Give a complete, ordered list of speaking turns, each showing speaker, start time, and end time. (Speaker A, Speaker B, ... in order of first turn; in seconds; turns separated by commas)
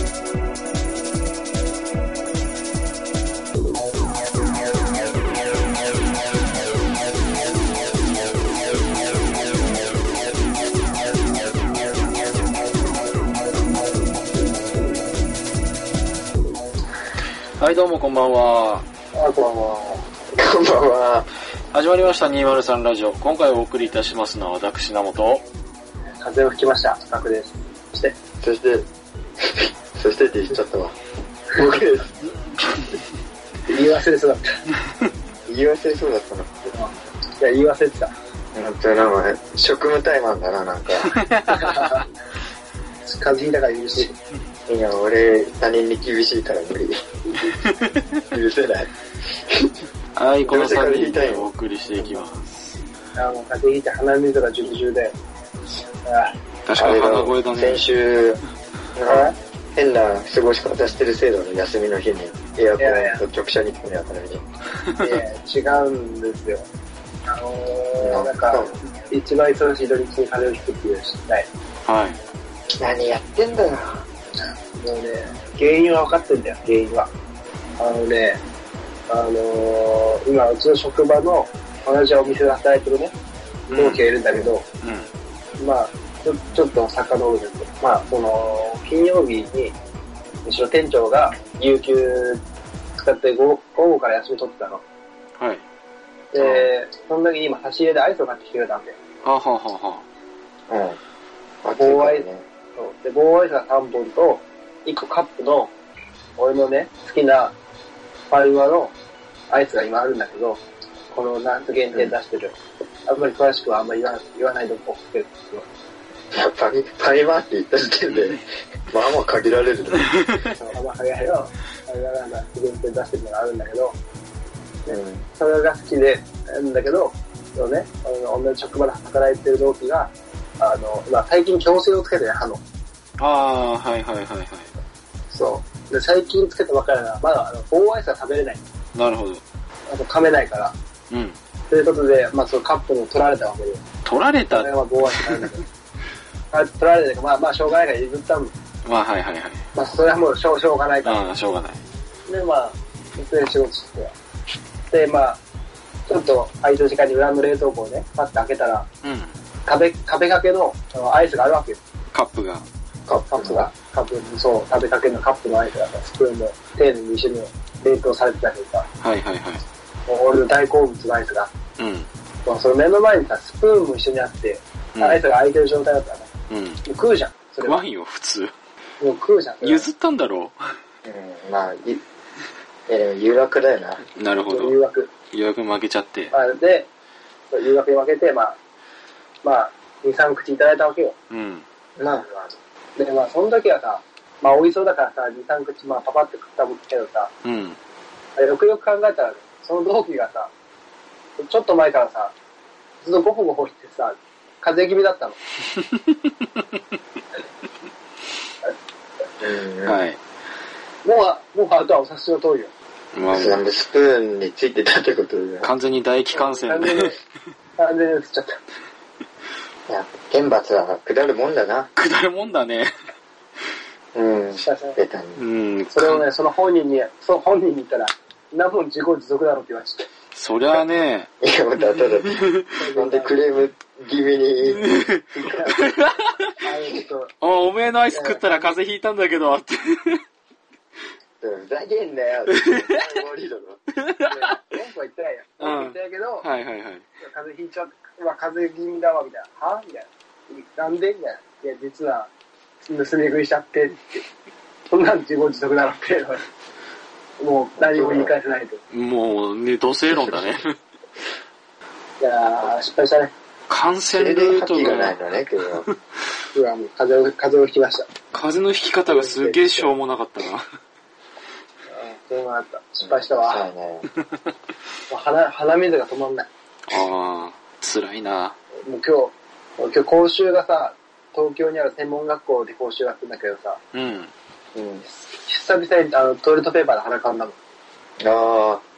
Speaker A: 17.6-18.9, Speaker B: 19.1-20.1, Speaker C: 20.3-21.3, Speaker A: 21.7-25.4, Speaker B: 26.2-28.1, Speaker C: 28.4-28.9, Speaker C: 29.4-31.0, Speaker C: 31.5-32.2, Speaker B: 33.7-34.6, Speaker C: 35.5-36.5, Speaker B: 36.6-38.1, Speaker C: 38.5-41.2, Speaker A: 41.0-41.9, Speaker B: 41.5-42.1, Speaker B: 43.1-44.1, Speaker C: 44.7-47.0, Speaker A: 47.5-48.2, Speaker C: 48.3-49.7, Speaker A: 50.1-52.8, Speaker C: 50.5-51.5, Speaker B: 53.2-55.1, Speaker B: 56.0-56.3, Speaker A: 56.7-57.9, Speaker C: 56.8-58.4, Speaker C: 59.0-64.4, Speaker B: 59.1-59.4, Speaker B: 62.8-63.2, Speaker B: 65.0-66.7, Speaker B: 67.3-71.5, Speaker C: 68.0-68.8, Speaker A: 71.8-72.2, Speaker C: 72.8-74.0, Speaker B: 74.4-77.1, Speaker B: 77.8-78.4, Speaker B: 79.1-83.1, Speaker A: 83.7-84.1, Speaker B: 83.7-84.6, Speaker A: 84.8-85.1, Speaker B: 85.6-89.7, Speaker B: 90.5-92.4, Speaker B: 93.0-94.8, Speaker B: 96.3-99.0, Speaker C: 96.4-96.7, Speaker A: 99.2-100.0, Speaker C: 100.7-101.0, Speaker C: 101.6-102.4, Speaker B: 101.8-105.7, Speaker B: 106.4-107.5, Speaker B: 108.3-108.9, Speaker B: 109.5-110.6, Speaker B: 111.1-112.5, Speaker B: 113.1-115.7, Speaker C: 116.3-120.3, Speaker A: 120.1-120.4, Speaker B: 120.5-124.0, Speaker B: 124.9-132.6, Speaker C: 124.9-125.2, Speaker A: 133.2-134.7, Speaker B: 135.3-138.6, Speaker A: 138.9-139.4, Speaker B: 139.9-140.7, Speaker A: 141.1-141.4, Speaker B: 141.7-143.8, Speaker A: 144.1-145.5, Speaker B: 144.5-145.6, Speaker B: 146.5-148.5, Speaker A: 148.8-149.7, Speaker B: 149.7-151.2, Speaker A: 151.0-151.8, Speaker B: 152.3-154.1, Speaker B: 154.9-155.4, Speaker B: 156.1-158.9, Speaker A: 159.0-159.3, Speaker B: 159.7-161.8, Speaker A: 162.1-162.7, Speaker C: 163.1-163.7, Speaker B: 163.3-168.9, Speaker A: 169.0-169.6, Speaker B: 170.1-171.5, Speaker A: 171.8-172.1, Speaker B: 172.5-176.3, Speaker A: 174.9-175.2, Speaker A: 176.5-176.8, Speaker B: 176.8-177.8, Speaker A: 177.7-178.5, Speaker B: 179.0-179.9, Speaker A: 179.6-180.6, Speaker C: 181.1-182.0, Speaker C: 182.9-184.0, Speaker A: 184.2-184.8, Speaker B: 184.5-185.1, Speaker A: 185.3-186.3, Speaker B: 186.3-186.9, Speaker B: 187.5-188.6, Speaker B: 189.4-191.2, Speaker A: 191.3-191.6, Speaker C: 192.0-192.5, Speaker B: 193.0-197.3, Speaker A: 197.4-197.8, Speaker B: 198.4-200.5, Speaker B: 201.4-202.3, Speaker B: 203.0-205.4, Speaker C: 209.4-210.0, Speaker A: 209.9-210.2, Speaker B: 211.0-212.7, Speaker A: 213.1-213.6, Speaker C: 213.3-215.7, Speaker A: 215.6-217.1, Speaker B: 216.3-217.2, Speaker B: 217.8-218.6, Speaker C: 219.9-221.9, Speaker A: 222.0-222.9, Speaker C: 224.1-225.4, Speaker B: 224.6-225.0, Speaker A: 225.4-226.2, Speaker B: 225.9-230.1, Speaker A: 230.3-231.3, Speaker C: 231.4-236.0, Speaker A: 231.9-232.7, Speaker B: 232.8-233.3, Speaker A: 234.7-236.5, Speaker B: 236.6-237.3, Speaker A: 237.4-240.2, Speaker B: 238.1-238.8, Speaker C: 241.4-243.8, Speaker A: 242.5-243.0, Speaker A: 244.0-244.5, Speaker B: 244.3-246.4, Speaker A: 245.6-247.0, Speaker B: 247.2-252.3, Speaker B: 252.9-254.2, Speaker B: 254.9-256.4, Speaker B: 257.4-258.8, Speaker C: 257.8-258.3, Speaker A: 258.9-260.7, Speaker B: 262.2-263.3, Speaker A: 263.7-265.2, Speaker C: 264.1-265.9, Speaker A: 265.7-265.9, Speaker B: 266.6-268.1, Speaker A: 268.3-270.7, Speaker B: 269.1-269.9, Speaker B: 271.9-273.6, Speaker C: 273.0-274.1, Speaker B: 275.1-276.5, Speaker A: 276.9-278.6, Speaker B: 278.9-283.8, Speaker A: 283.9-284.3, Speaker C: 284.8-285.1, Speaker B: 285.4-287.6, Speaker C: 288.2-288.8